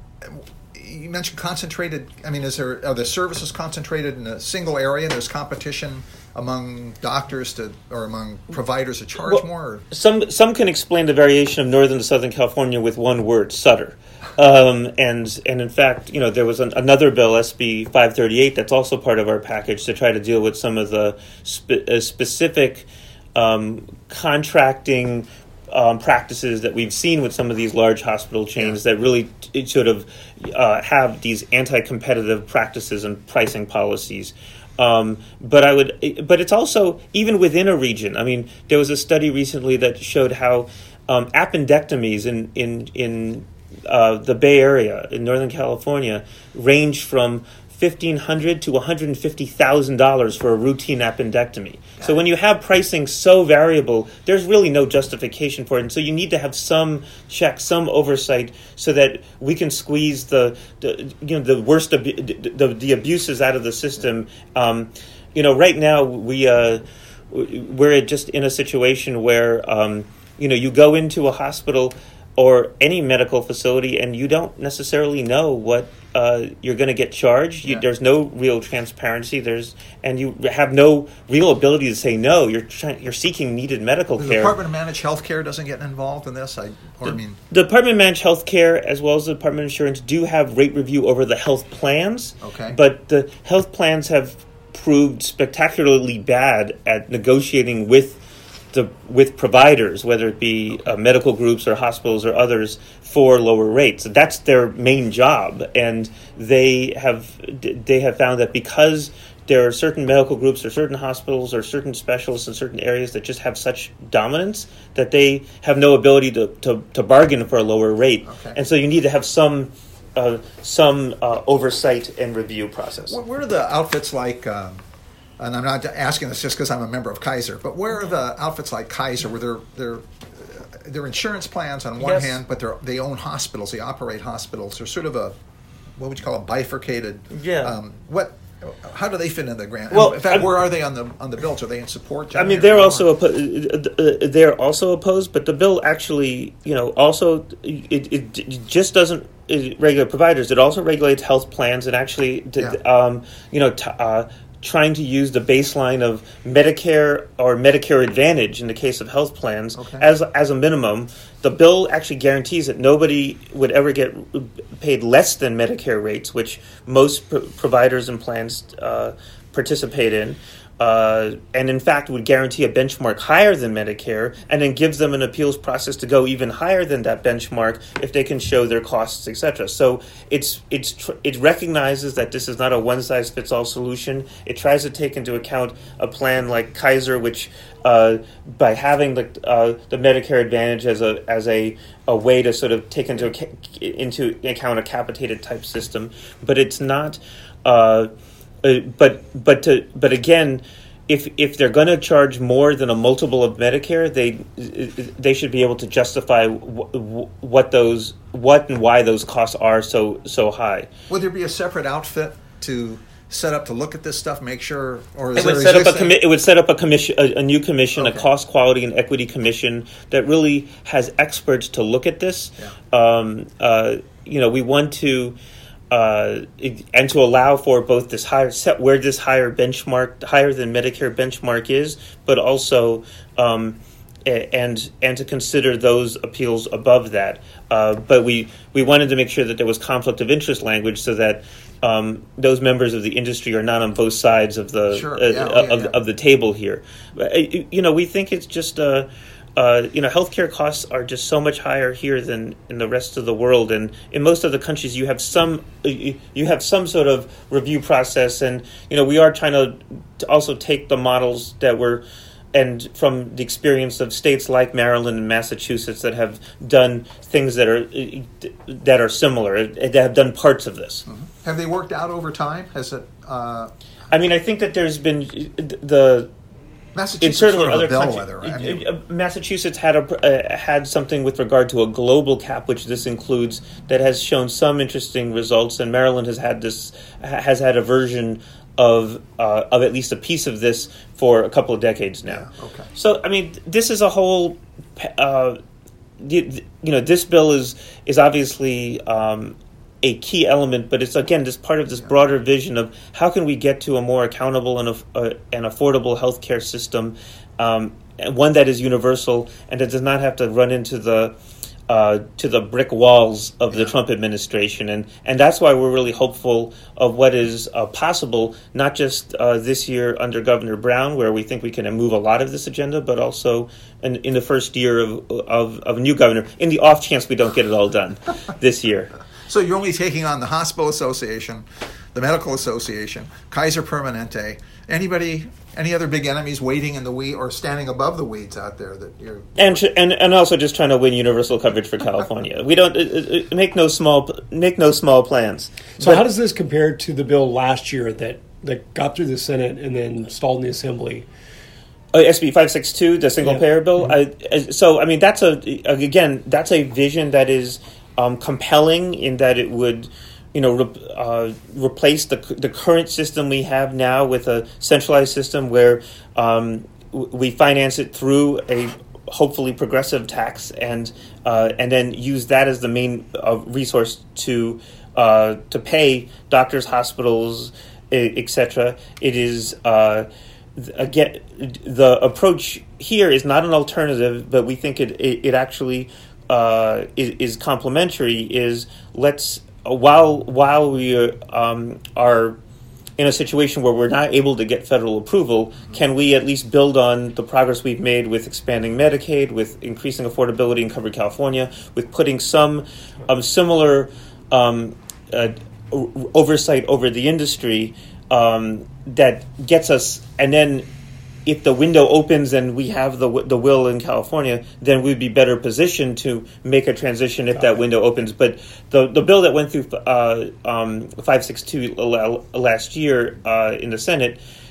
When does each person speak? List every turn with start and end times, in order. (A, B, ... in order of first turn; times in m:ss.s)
0:00.2-0:09.8 A
0:09.2-1:24.6 B
1:24.2-1:27.4 A
1:27.1-2:03.2 B
1:32.4-1:32.8 A
1:58.3-1:58.6 A
2:03.1-2:04.8 A
2:05.4-2:15.4 A
2:12.0-2:12.4 B
2:16.0-2:23.1 A
2:17.3-2:17.8 B
2:19.9-2:20.5 B
2:22.3-3:18.1 B
2:39.8-2:40.1 A
3:18.6-3:30.9 B
3:31.1-3:36.2 A
3:35.4-3:45.4 B
3:38.0-3:38.3 A
3:45.9-4:31.1 B
4:04.9-4:06.0 A
4:31.1-4:33.7 A
4:34.1-4:36.3 B
4:36.9-4:38.9 A
4:37.2-4:55.6 B
4:52.3-4:52.9 A
4:56.2-5:11.3 B
5:11.9-5:29.1 B
5:29.5-5:39.8 A
5:39.6-5:46.2 B
5:46.0-5:51.3 C
5:52.1-6:32.6 B
6:33.2-6:50.9 B
6:51.5-7:04.4 B